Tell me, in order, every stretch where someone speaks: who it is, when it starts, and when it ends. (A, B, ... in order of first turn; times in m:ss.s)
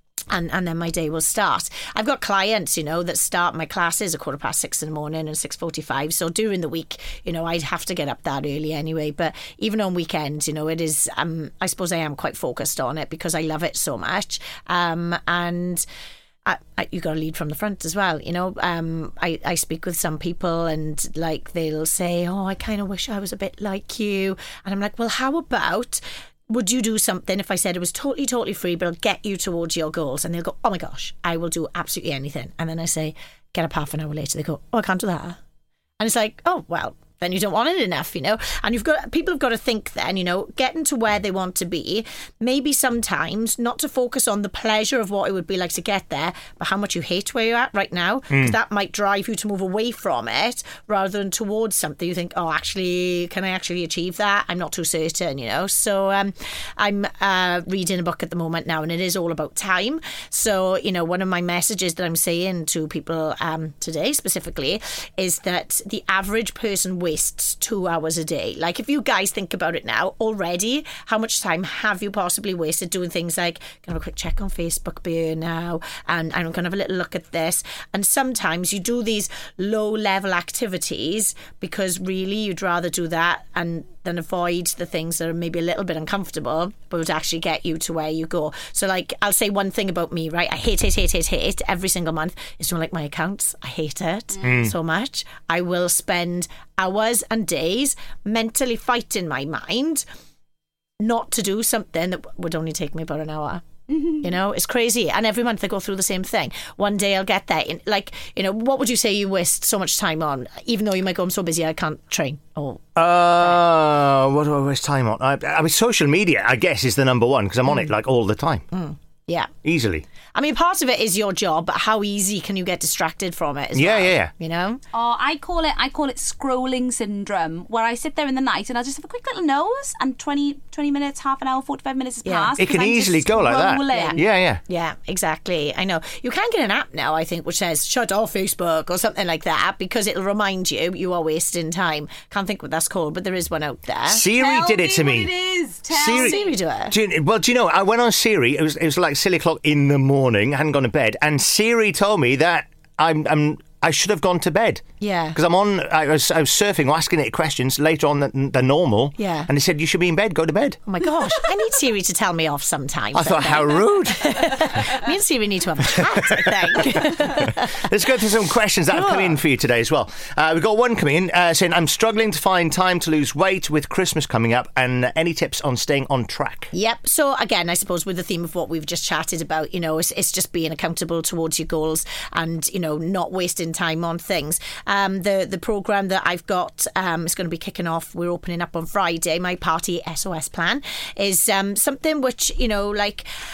0:00.3-0:15.8 A
0:16.4-0:35.4 A
0:36.0-1:40.0 A
0:48.3-0:48.6 B
1:34.4-1:34.7 B
1:41.0-1:53.6 A
1:53.0-1:58.6 B
1:58.7-1:59.5 A
1:59.6-2:00.0 B
2:00.3-2:04.8 A
2:03.7-2:04.3 B
2:04.9-2:14.2 C
2:12.2-2:12.6 A
2:12.6-2:14.6 B
2:13.9-2:24.2 A
2:24.1-2:25.3 B
2:24.3-2:26.5 C
2:25.9-2:26.4 B
2:26.0-2:26.9 A
2:26.9-2:34.8 B
2:35.0-2:35.4 A
2:35.3-2:40.8 B
2:39.2-2:39.5 A
2:40.8-2:47.8 A
2:43.1-2:44.3 B
2:47.7-2:56.7 B
2:48.9-2:49.4 A
2:56.7-3:13.2 A